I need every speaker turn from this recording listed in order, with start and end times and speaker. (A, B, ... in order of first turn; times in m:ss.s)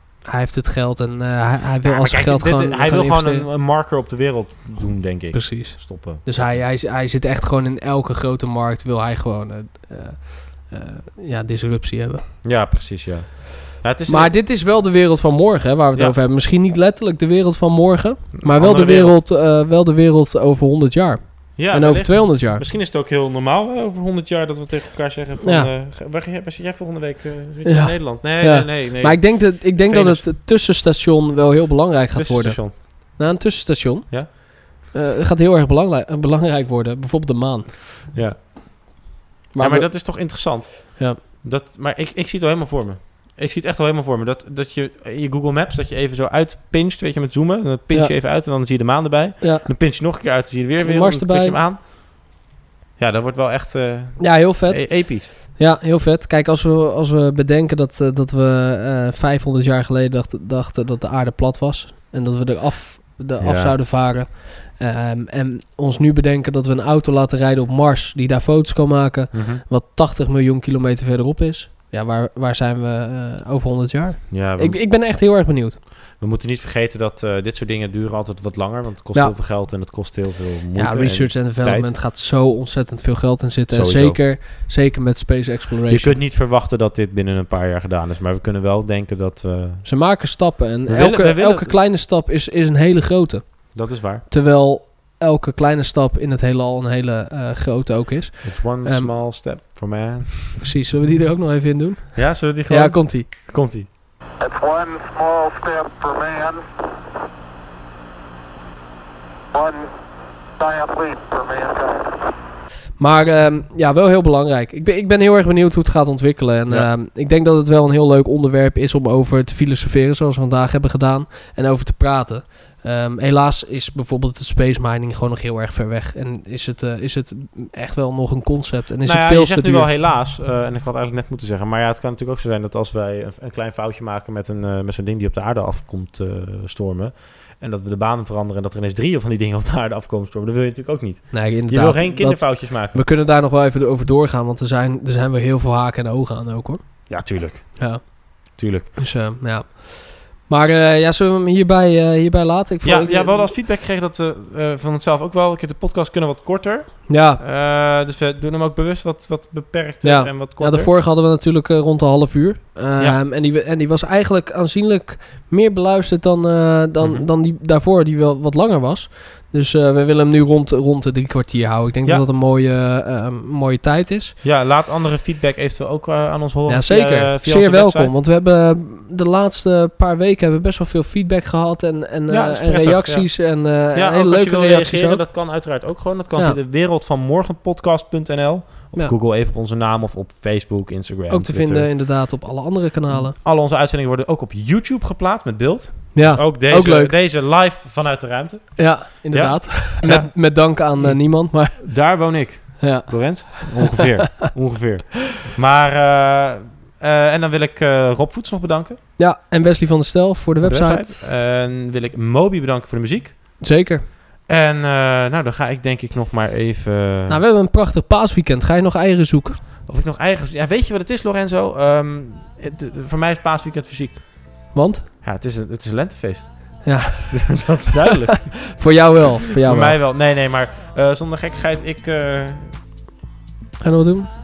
0:00.2-0:03.5 A
0:01.8-0:06.6 B
0:05.3-0:12.2 A
0:12.4-0:14.4 B
0:14.1-0:22.6 A
0:18.4-0:19.2 B
0:21.6-0:30.3 B
0:25.4-0:25.7 A
0:27.6-0:37.7 A
0:32.1-0:32.8 B
0:38.1-0:39.0 B
0:39.5-0:40.3 A
0:39.6-0:52.4 B
0:49.4-0:49.7 A
0:50.8-0:51.6 A
0:53.0-0:55.3 B
0:54.2-1:15.8 A
1:03.4-1:03.7 B
1:09.3-1:09.6 B
1:14.3-1:15.2 B
1:16.1-1:21.9 B
1:20.7-1:26.2 A
1:23.7-1:24.3 B
1:25.9-1:29.9 B
1:29.8-1:39.1 A
1:30.9-1:31.7 B
1:33.7-1:34.2 B
1:38.4-1:40.6 B
1:40.6-1:43.3 A
1:42.1-1:43.9 B
1:44.4-1:46.6 C
1:49.5-1:49.9 C
1:50.6-1:52.3 C
1:53.0-2:09.9 A
2:09.0-2:23.0 B
2:21.3-2:33.5 A
2:27.1-2:29.0 B
2:32.8-2:40.9 B
2:37.1-2:37.4 A
2:40.0-2:54.4 A
2:54.4-2:58.1 B
2:56.7-3:05.2 A
3:02.3-3:12.0 B
3:11.3-3:13.3 A
3:13.1-3:29.0 B
3:16.1-3:17.1 A
3:18.8-3:22.1 A
3:22.8-3:24.0 A
3:29.2-3:31.3 A
3:30.6-3:33.6 B
3:33.6-3:34.1 A
3:34.5-3:37.4 B
3:37.3-3:39.6 A
3:39.8-3:48.8 B
3:44.7-3:45.0 A
3:46.8-3:47.6 A
3:48.7-3:50.0 A
3:49.6-3:52.8 B
3:53.8-3:54.3 A